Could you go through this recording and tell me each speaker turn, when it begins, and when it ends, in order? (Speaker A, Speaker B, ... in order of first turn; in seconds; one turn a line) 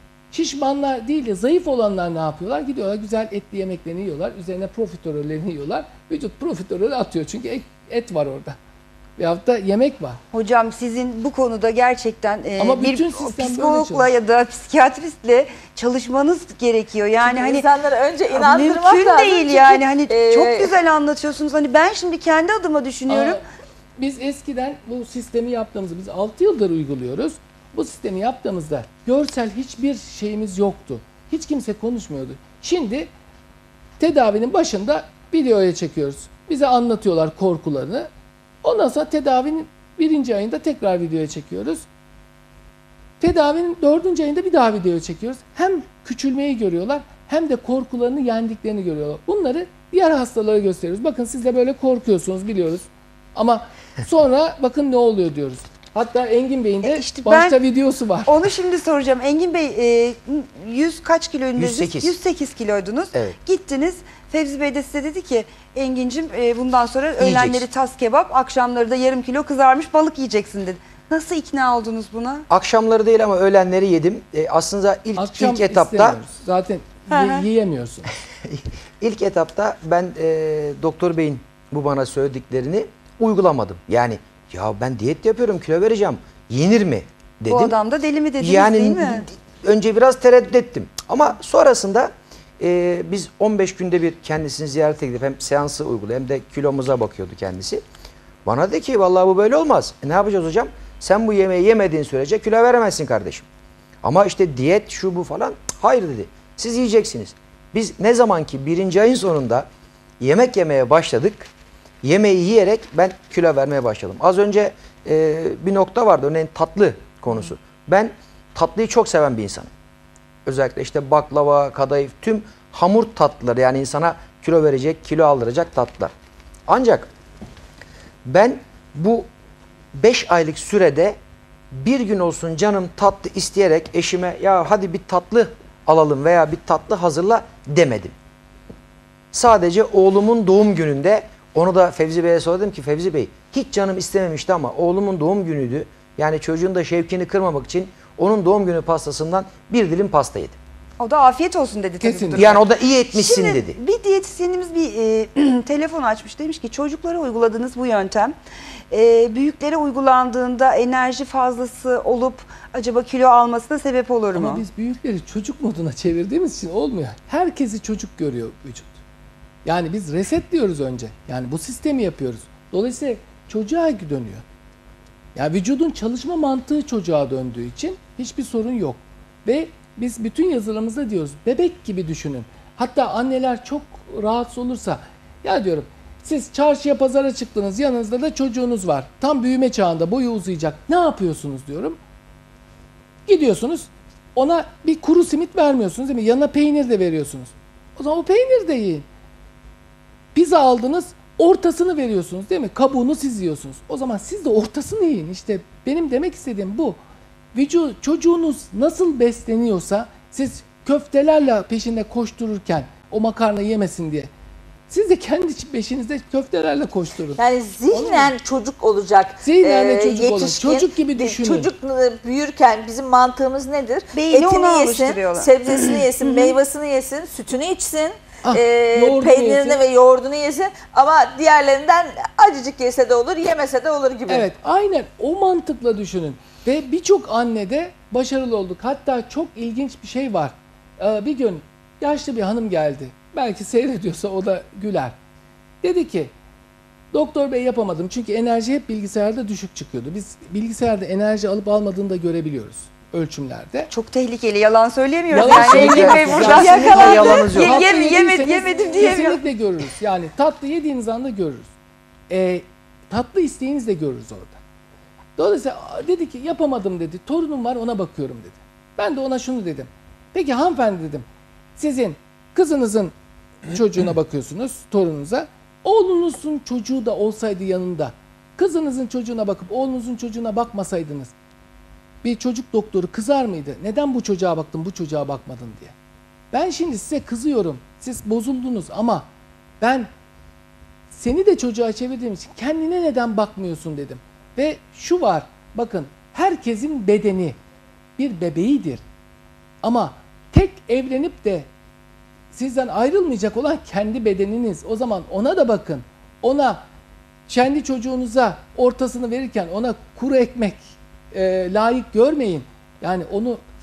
Speaker A: 0.3-8.6
Speaker A: 9.2-10.2
Speaker B: 10.3-17.7
Speaker A: 12.6-14.1
Speaker C: 17.2-20.7
Speaker B: 18.3-23.4
Speaker A: 23.1-23.4
Speaker A: 24.0-33.1
Speaker A: 34.0-38.1
Speaker A: 38.6-41.8
Speaker A: 43.2-58.3
Speaker B: 56.8-57.6
Speaker B: 58.2-72.5
Speaker D: 61.6-62.1
Speaker D: 67.2-67.7
Speaker D: 72.5-76.2
Speaker A: 75.2-78.1
Speaker B: 77.1-77.4
Speaker D: 78.4-87.7
Speaker B: 87.5-89.3
Speaker D: 88.4-97.8
Speaker D: 98.4-103.5
Speaker D: 104.0-109.7
Speaker D: 110.2-111.5
Speaker D: 112.0-119.7
Speaker D: 120.5-126.1
Speaker D: 126.7-127.1
Speaker D: 128.2-129.3
Speaker D: 129.9-131.2
Speaker D: 131.7-138.1
Speaker D: 139.3-150.6
Speaker B: 151.0-158.3
Speaker A: 152.0-152.5
Speaker D: 152.3-153.8
Speaker B: 158.9-164.6
Speaker A: 164.3-169.0
Speaker A: 169.6-174.4
Speaker A: 175.3-192.0
Speaker A: 193.2-199.0
Speaker A: 200.3-207.0
Speaker A: 207.5-214.3
Speaker A: 214.9-218.3
Speaker C: 217.3-234.5
Speaker A: 219.4-221.7
Speaker B: 224.1-226.6
Speaker A: 228.4-229.8
Speaker A: 234.3-245.2
Speaker A: 245.8-246.3
Speaker A: 247.1-253.9
Speaker B: 253.9-259.4
Speaker A: 255.3-261.7
Speaker D: 255.4-257.8
Speaker A: 262.3-264.6
Speaker A: 265.4-271.2
Speaker A: 271.8-273.1
Speaker A: 273.6-281.3
Speaker A: 282.2-285.9
Speaker A: 286.5-289.3
Speaker A: 289.8-290.1
Speaker A: 291.1-297.6
Speaker A: 298.2-299.0
Speaker A: 299.8-301.7
Speaker A: 302.5-306.8
Speaker A: 307.5-313.6